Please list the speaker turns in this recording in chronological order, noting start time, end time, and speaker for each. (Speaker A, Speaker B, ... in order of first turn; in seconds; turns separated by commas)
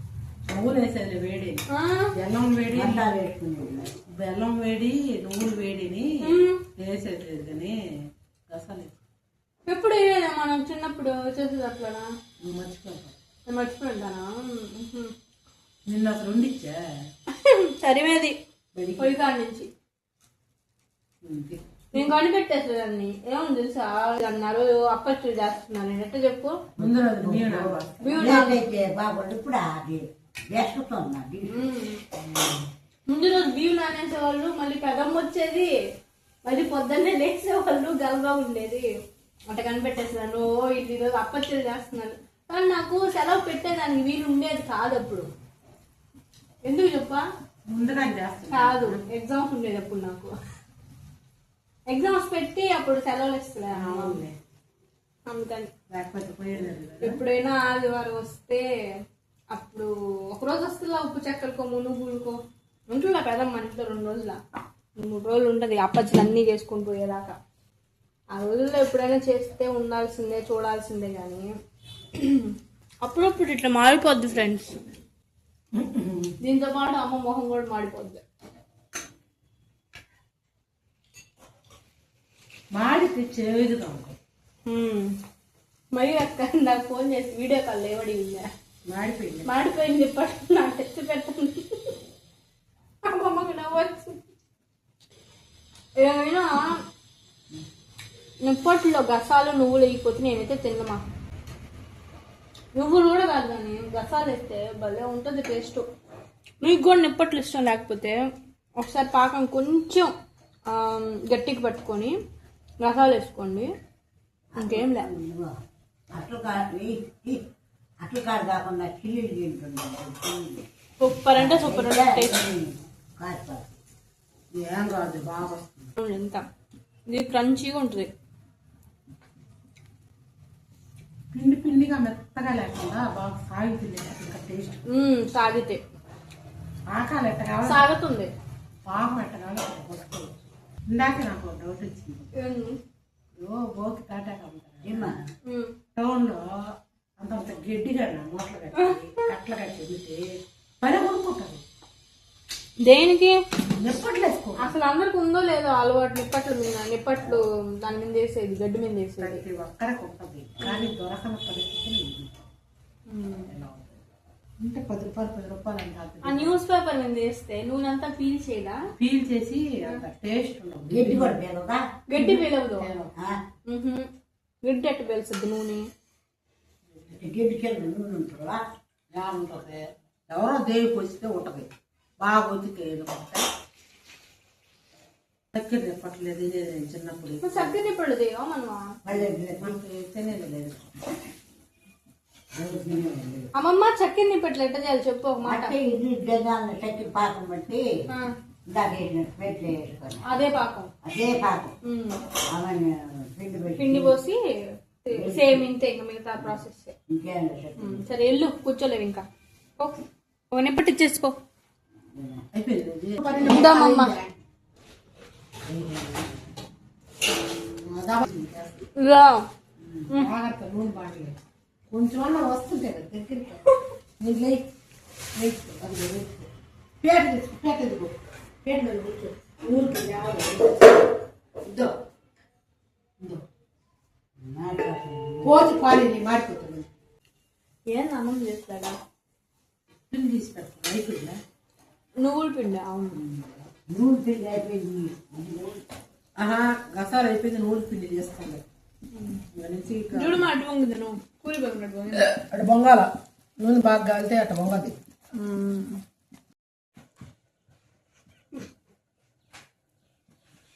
Speaker A: 0.5-3.1, Speaker B: 1.7-2.1, Speaker C: 2.7-3.9, Speaker A: 4.1-7.8, Speaker B: 6.2-6.6, Speaker A: 8.5-8.9, Speaker B: 9.7-12.1, Speaker A: 12.4-13.1, Speaker B: 13.5-15.1, Speaker A: 15.8-16.8, Speaker B: 17.3-18.3, Speaker A: 18.7-19.1, Speaker B: 19.0-19.7, Speaker A: 21.2-22.1, Speaker B: 21.9-26.6, Speaker C: 26.8-32.6, Speaker A: 26.8-28.4, Speaker B: 28.0-28.6, Speaker B: 31.4-32.0, Speaker B: 33.1-35.7, Speaker B: 36.4-38.9, Speaker B: 39.5-45.3, Speaker B: 46.6-47.2, Speaker A: 47.7-49.0, Speaker B: 48.5-50.3, Speaker B: 51.9-54.2, Speaker A: 53.7-54.4, Speaker B: 55.2-55.7, Speaker A: 55.9-57.2, Speaker B: 57.0-58.6, Speaker B: 59.5-62.4, Speaker B: 62.9-64.4, Speaker B: 65.0-67.3, Speaker B: 68.3-71.5, Speaker B: 72.1-74.7, Speaker A: 75.7-76.3, Speaker B: 76.4-78.2, Speaker A: 82.7-84.2, Speaker B: 84.7-85.1, Speaker B: 85.9-88.5, Speaker A: 88.8-89.5, Speaker B: 89.4-91.9, Speaker B: 93.0-94.2, Speaker B: 96.0-96.8, Speaker B: 98.4-101.0, Speaker B: 102.7-105.8, Speaker B: 106.6-108.2, Speaker B: 108.8-110.1, Speaker B: 110.7-112.2, Speaker B: 112.8-113.7, Speaker C: 114.5-115.5, Speaker B: 114.6-115.1, Speaker C: 116.1-117.4, Speaker C: 118.0-120.7, Speaker B: 121.0-122.4, Speaker C: 121.3-123.7, Speaker A: 124.5-125.8, Speaker B: 126.0-126.4, Speaker B: 127.1-128.1, Speaker A: 131.3-134.8, Speaker B: 134.9-135.8, Speaker A: 136.9-137.9, Speaker B: 137.6-138.3, Speaker A: 138.8-140.3, Speaker A: 140.9-142.3, Speaker B: 142.3-142.8, Speaker A: 143.4-145.2, Speaker C: 144.8-145.2, Speaker B: 145.5-145.8, Speaker A: 145.9-146.4, Speaker A: 147.2-151.6, Speaker B: 152.8-153.4, Speaker A: 153.8-154.8, Speaker B: 154.6-159.4, Speaker A: 159.2-162.3, Speaker B: 160.6-160.9, Speaker B: 163.1-163.5, Speaker A: 163.5-164.0, Speaker A: 164.6-166.6, Speaker B: 166.2-168.8, Speaker A: 169.0-171.4, Speaker C: 170.9-171.8, Speaker B: 172.1-172.9, Speaker A: 172.2-173.1, Speaker C: 173.2-173.4, Speaker B: 173.7-174.1, Speaker B: 174.6-175.8, Speaker A: 176.9-177.3, Speaker C: 177.2-178.6, Speaker A: 179.1-181.7, Speaker A: 182.2-183.5, Speaker A: 185.5-187.7, Speaker B: 187.4-188.8, Speaker C: 189.1-189.8, Speaker A: 189.1-190.9, Speaker C: 192.5-193.5, Speaker B: 193.5-195.7, Speaker C: 195.4-197.8, Speaker C: 198.7-200.2, Speaker B: 200.2-200.9, Speaker C: 201.0-201.7, Speaker B: 201.8-202.2, Speaker C: 202.5-204.1, Speaker B: 203.8-204.4, Speaker B: 205.0-206.9, Speaker C: 205.1-205.6, Speaker C: 207.1-208.0, Speaker B: 207.8-209.2, Speaker B: 209.8-211.3, Speaker C: 212.1-212.4, Speaker A: 212.5-214.3, Speaker B: 213.4-214.2, Speaker C: 215.7-216.4, Speaker A: 217.5-218.8, Speaker B: 218.9-219.4, Speaker C: 219.8-220.1, Speaker A: 220.1-221.4, Speaker A: 221.9-223.6, Speaker A: 224.2-224.7, Speaker A: 225.3-226.5, Speaker A: 227.0-231.9, Speaker C: 234.4-235.6, Speaker A: 235.4-236.9, Speaker B: 237.9-239.0, Speaker A: 240.1-241.4, Speaker B: 242.2-243.2, Speaker C: 243.1-245.8, Speaker A: 246.4-248.6, Speaker B: 249.1-249.4, Speaker A: 249.5-250.5, Speaker B: 250.1-252.3, Speaker A: 252.3-254.9, Speaker B: 255.3-256.0